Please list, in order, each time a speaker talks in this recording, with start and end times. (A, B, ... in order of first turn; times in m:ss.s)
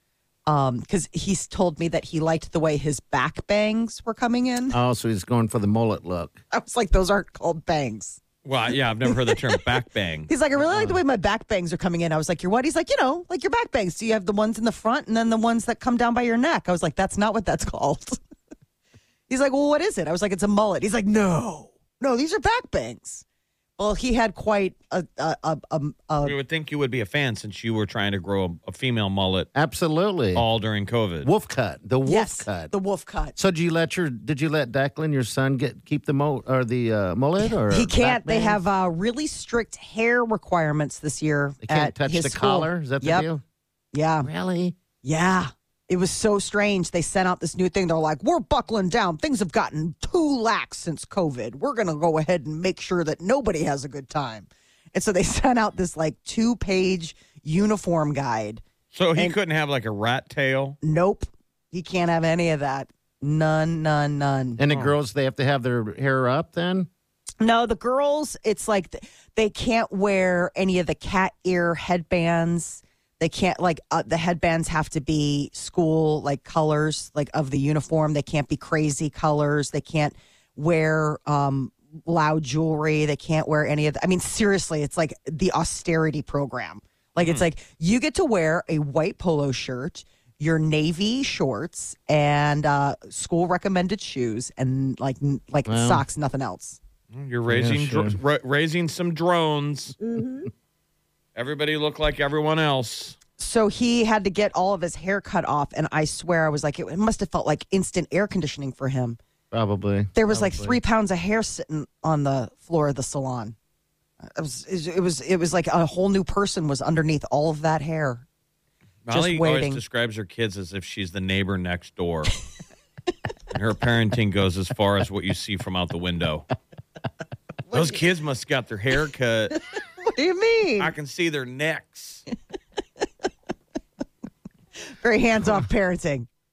0:00.5-0:04.8 A
0:04.7-0:06.4 B
0:06.5-0:08.2 A
0:08.4-0:10.8 C
0:09.1-0:09.6 A
0:10.3-0:18.2 A
0:19.3-0:23.2 A
0:23.8-0:26.4 A
0:26.2-0:29.5 C
0:29.6-0:30.4 B
0:30.3-0:31.3 C
0:31.2-0:32.7 B
0:32.0-0:33.4 A
0:33.4-0:38.6 B
0:37.4-0:43.3 A
0:41.6-0:43.4 B
0:43.9-0:44.3 A
0:44.2-0:44.8 B
0:45.0-0:58.6 A
0:58.9-1:00.8 C
1:00.8-1:04.6 A
1:04.6-1:06.9 B
1:07.4-1:36.8 A
1:27.2-1:27.4 C
1:35.6-1:36.0 B
1:37.1-1:40.0 C
1:37.5-1:38.2 B
1:41.3-1:43.2 C
1:43.4-1:49.2 A
1:49.5-1:50.8 B
1:50.1-1:53.6 A
1:54.2-1:58.2 A
1:59.0-2:02.4 C
1:59.1-1:59.8 A
2:03.5-2:06.5 C
2:07.7-2:08.0 A
2:07.7-2:09.6 C
2:10.0-2:10.9 A
2:10.8-2:12.2 C
2:15.0-2:16.3 A